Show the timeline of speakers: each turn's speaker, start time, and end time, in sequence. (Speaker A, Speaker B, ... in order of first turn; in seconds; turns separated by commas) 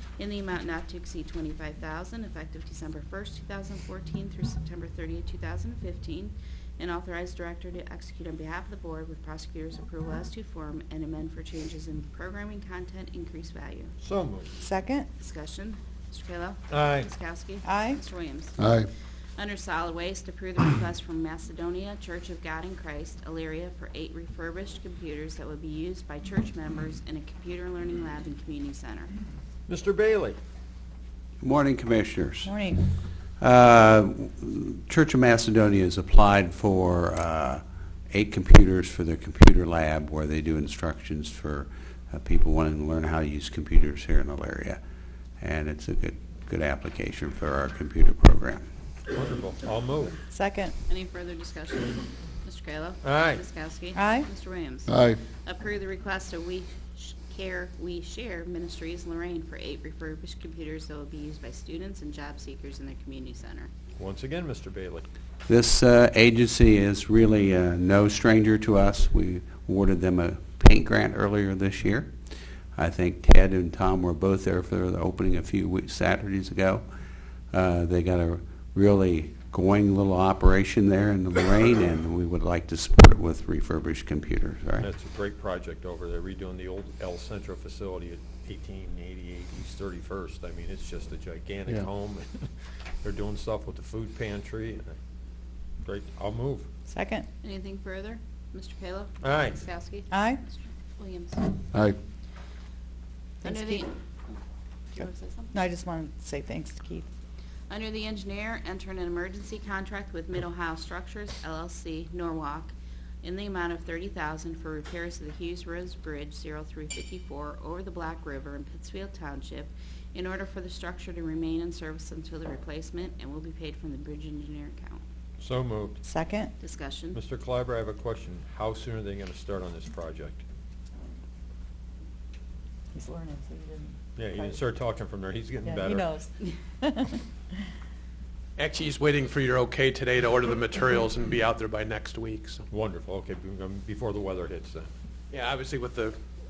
Speaker A: 0.2-13.9, Speaker B: 14.0-14.5, Speaker C: 14.6-15.1, Speaker A: 15.2-18.8, Speaker B: 16.7-17.1, Speaker C: 17.6-18.0, Speaker A: 19.4-29.1, Speaker B: 29.7-30.4, Speaker D: 31.4-32.6, Speaker C: 32.4-32.8, Speaker D: 33.4-44.8, Speaker D: 45.4-48.6, Speaker B: 49.1-50.2, Speaker C: 50.3-50.7, Speaker A: 50.9-63.7, Speaker B: 53.0-53.4, Speaker C: 53.9-54.3, Speaker B: 64.0-65.1, Speaker D: 65.5-72.1, Speaker D: 72.8-76.8, Speaker D: 77.5-84.9, Speaker B: 84.8-92.5, Speaker B: 93.0-94.9, Speaker B: 95.8-96.7, Speaker C: 96.9-97.3, Speaker A: 97.4-101.6, Speaker B: 99.2-99.6, Speaker C: 100.1-100.4, Speaker C: 103.4-103.8, Speaker A: 103.4-104.4, Speaker A: 104.9-105.6, Speaker C: 105.0-107.0, Speaker A: 107.7-125.0, Speaker B: 125.4-126.0, Speaker C: 126.0-126.5, Speaker A: 126.6-127.2, Speaker B: 127.1-130.4, Speaker C: 132.9-134.6, Speaker B: 134.2-136.1, Speaker C: 135.6-137.2, Speaker E: 138.6-142.6, Speaker B: 142.7-144.9, Speaker E: 145.4-146.1